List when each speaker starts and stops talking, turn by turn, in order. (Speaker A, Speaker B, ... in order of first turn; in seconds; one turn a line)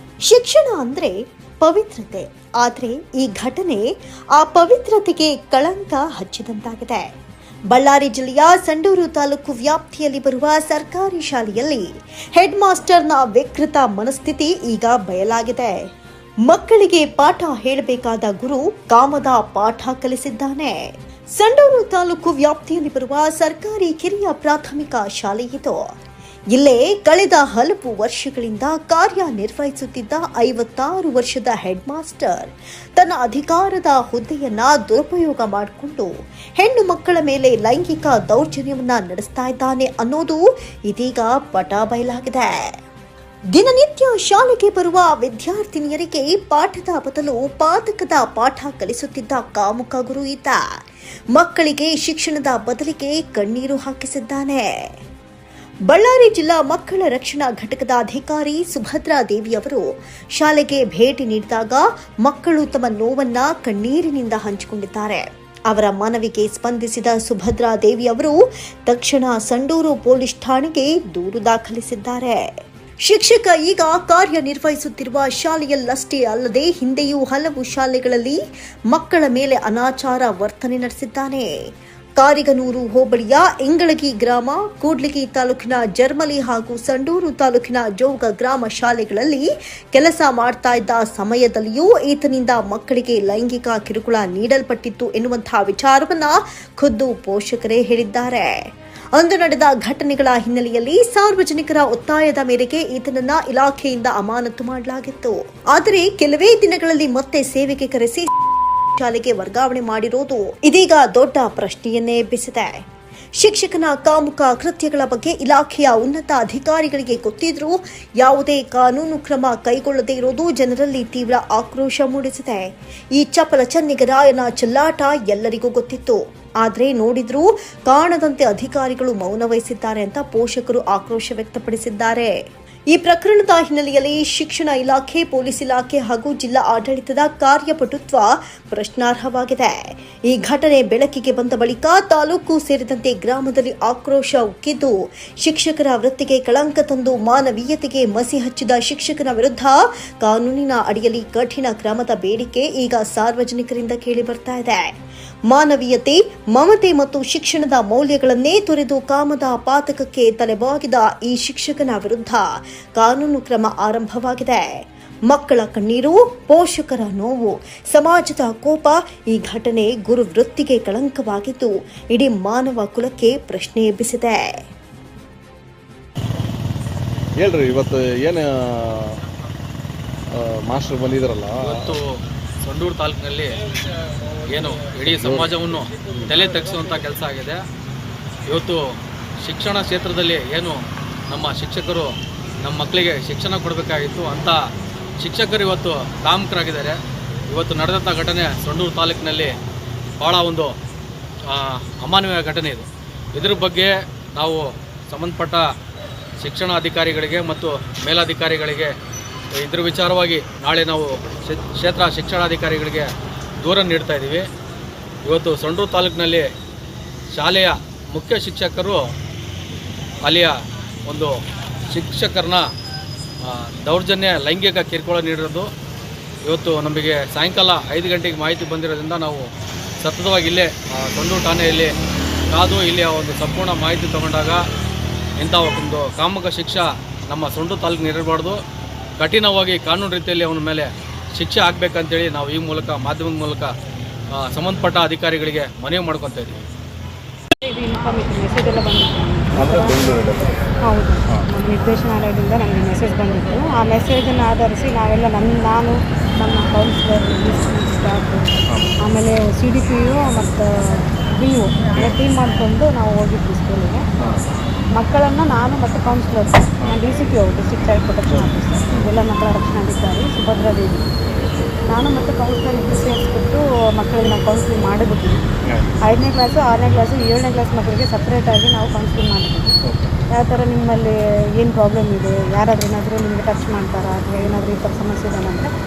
Speaker A: 0.2-7.1
Speaker A: 7.7-15.8
Speaker A: 16.4-20.8
Speaker A: 21.3-25.8
Speaker A: 26.5-42.7
Speaker A: 43.5-50.6
Speaker A: 51.3-54.7
Speaker A: 55.9-68.3
Speaker A: 68.9-72.4
Speaker A: 73.0-78.4
Speaker A: 78.9-81.5
Speaker A: 82.2-98.5
Speaker A: 99.2-108.3
Speaker A: 109.0-112.8
Speaker A: 113.3-132.3
Speaker A: 132.9-154.9
Speaker A: 155.5-162.4
Speaker A: 162.9-174.6
Speaker B: 177.3-179.2
Speaker B: 180.3-181.9
Speaker C: 181.6-182.0
Speaker C: 182.6-183.5
Speaker C: 184.5-187.6
Speaker B: 185.2-185.5
Speaker C: 188.5-188.8
Speaker C: 189.4-190.8
Speaker C: 191.3-192.1
Speaker C: 192.6-194.6
Speaker C: 195.2-197.0
Speaker C: 197.5-199.5
Speaker C: 200.2-200.7
Speaker C: 201.5-205.6
Speaker C: 206.4-208.9
Speaker C: 209.6-213.1
Speaker C: 213.6-214.4
Speaker C: 215.3-216.5
Speaker C: 217.3-219.0
Speaker C: 220.2-220.5
Speaker C: 221.1-221.3
Speaker C: 221.9-222.6
Speaker C: 223.4-225.7
Speaker C: 226.5-229.5
Speaker C: 230.0-231.9
Speaker C: 232.5-234.6
Speaker C: 235.4-238.6
Speaker C: 239.2-243.7
Speaker C: 244.4-246.6
Speaker D: 247.6-250.1
Speaker B: 249.6-250.6
Speaker D: 250.8-264.0
Speaker B: 258.7-258.9
Speaker B: 264.2-264.5
Speaker D: 265.0-271.1
Speaker B: 268.3-269.1
Speaker B: 271.3-271.5
Speaker D: 271.9-275.4
Speaker B: 275.6-275.9
Speaker D: 276.0-279.7
Speaker B: 279.9-280.1
Speaker D: 280.3-285.7